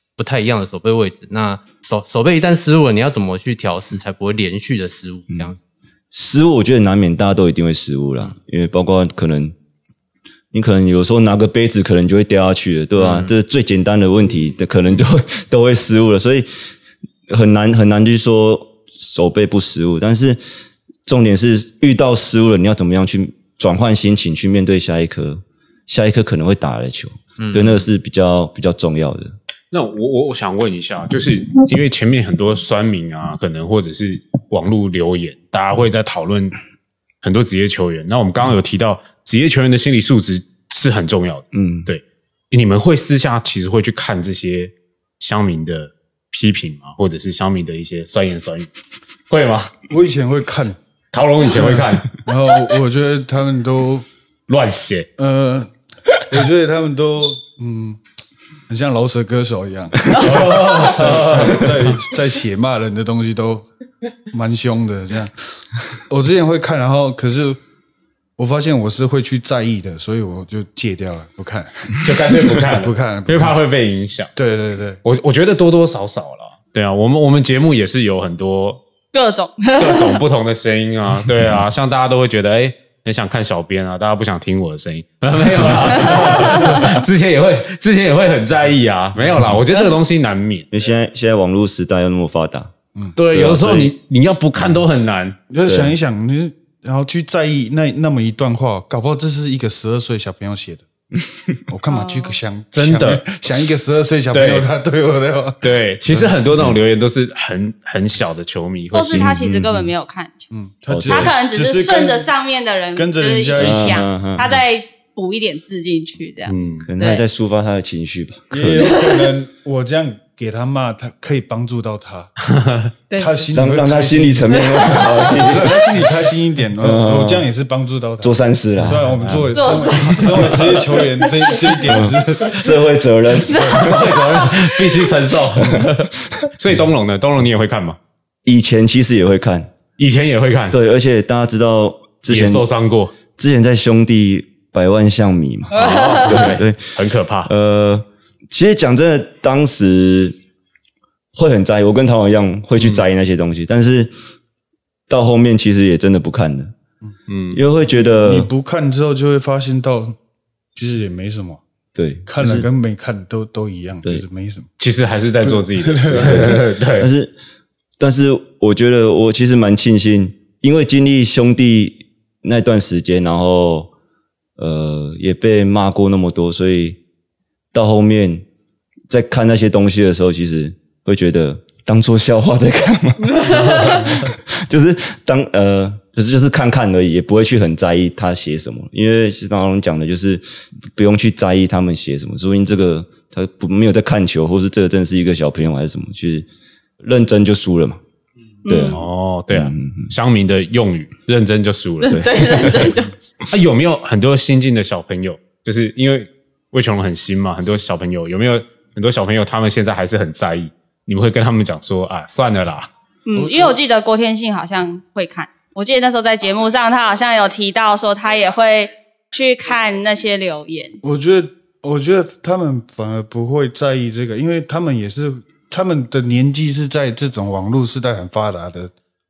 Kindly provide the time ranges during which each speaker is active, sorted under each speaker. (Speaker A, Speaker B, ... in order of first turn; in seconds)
Speaker A: 0.2-5.6, 13.0-13.3, 27.4-27.9
Speaker B: 6.1-9.5, 10.5-16.7, 17.3-20.4, 21.1-29.4, 41.5-41.9, 90.7-92.7, 93.3-94.0, 95.6-95.9, 110.9-111.3, 113.5-114.5, 116.8-118.9, 123.5-126.2, 126.8-127.5, 128.2-129.1, 131.8-134.2, 135.6-135.8, 138.4-139.7, 140.7-142.7, 143.3-150.3, 151.3-154.1, 155.1-156.7, 157.5-158.5, 161.9-162.7, 166.1-167.3, 168.0-173.9, 174.6-177.0, 177.7-178.4, 179.1-196.5, 197.0-198.0, 198.6-200.1, 202.1-202.9
Speaker C: 29.7-36.6, 37.2-48.7, 49.3-49.7, 51.1-52.1, 54.5-55.1, 60.1-62.0, 72.0-74.3, 75.0-78.8, 79.8-90.7, 93.2-95.4, 102.7-103.2, 104.3-104.7, 105.6-109.9, 116.5-116.9, 122.5-122.9, 128.8-130.4, 133.6-138.0, 140.0-140.8, 142.3-143.1, 145.7-147.5, 152.8-153.0, 157.3-157.6, 164.8-167.1, 198.9-202.7, 203.5-212.9
Speaker D: 49.9-50.8, 51.5-54.0, 55.2-58.0, 58.7-63.7, 64.3-67.6, 68.4-73.5, 74.3-75.0, 95.5-100.8, 101.7-106.4, 110.5-112.3, 112.9-114.0, 118.5-122.3, 123.2-132.6, 158.2-160.2, 160.7-161.6, 162.3-164.7, 165.4-166.6, 213.3-213.7, 221.0-228.9
Speaker E: 79.1-80.2, 85.9-86.9, 101.9-102.4, 108.9-110.5, 111.1-117.2, 123.1-123.5, 124.6-125.0, 129.5-130.6, 131.3-131.6, 133.5-134.9, 145.7-146.4, 183.4-183.8, 198.6-199.0, 202.0-203.3, 213.2-221.0